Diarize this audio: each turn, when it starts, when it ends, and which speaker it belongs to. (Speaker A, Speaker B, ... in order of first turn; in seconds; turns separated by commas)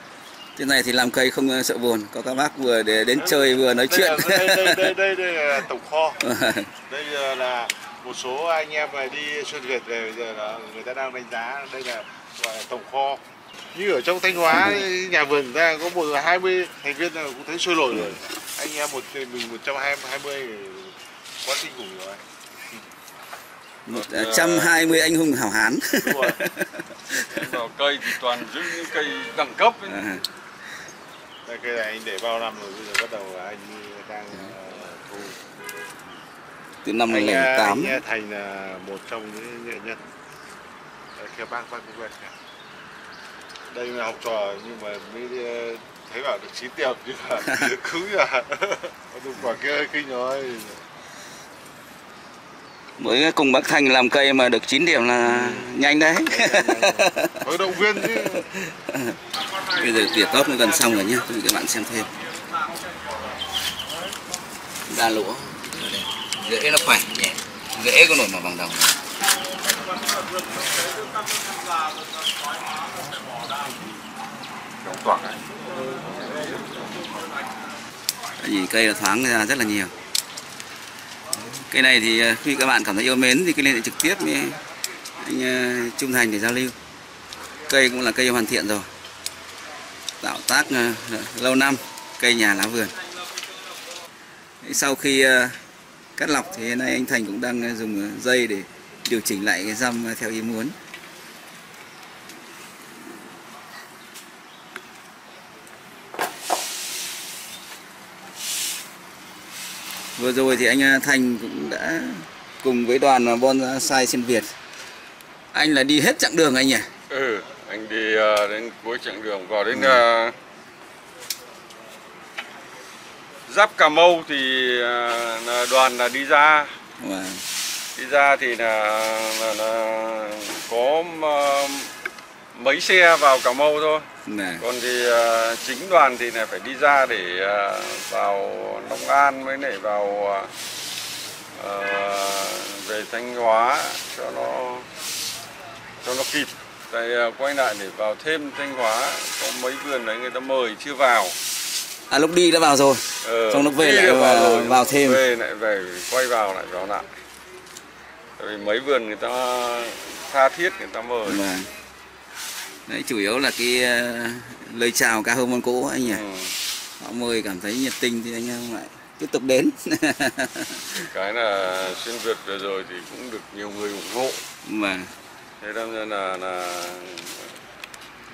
Speaker A: 0.6-4.9, Speaker B: 3.1-6.2, Speaker A: 6.2-6.7, Speaker B: 6.9-13.2, Speaker B: 13.7-22.2, Speaker A: 14.5-14.8, Speaker A: 23.9-27.4, Speaker C: 23.9-24.9, Speaker B: 26.0-26.4, Speaker C: 27.1-30.0, Speaker A: 29.9-30.2, Speaker B: 31.4-35.4, Speaker A: 36.8-38.0, Speaker B: 37.1-40.0, Speaker B: 41.2-42.3, Speaker B: 43.7-50.8, Speaker A: 53.0-57.4, Speaker B: 55.4-55.6, Speaker B: 56.2-58.5, Speaker A: 58.3-62.1, Speaker A: 64.9-69.0, Speaker C: 74.8-75.4, Speaker A: 78.4-79.9, Speaker A: 81.5-84.6, Speaker A: 85.2-86.8, Speaker A: 87.7-88.9, Speaker A: 90.2-93.0, Speaker A: 94.6-95.6, Speaker A: 96.2-100.8, Speaker A: 110.2-114.5, Speaker A: 115.5-116.9, Speaker C: 117.1-120.4, Speaker A: 119.7-120.0, Speaker C: 123.5-126.8, Speaker A: 127.0-127.4, Speaker C: 128.0-131.9, Speaker C: 132.5-134.1, Speaker A: 134.3-134.6, Speaker C: 134.6-140.5, Speaker C: 141.6-144.9, Speaker C: 146.0-151.4, Speaker A: 152.1-155.2, Speaker C: 153.2-157.1, Speaker C: 158.4-161.4, Speaker A: 161.2-161.7, Speaker A: 162.9-166.2, Speaker C: 166.0-166.6, Speaker A: 167.0-170.9, Speaker C: 170.9-174.4, Speaker A: 174.6-175.1, Speaker C: 175.6-177.5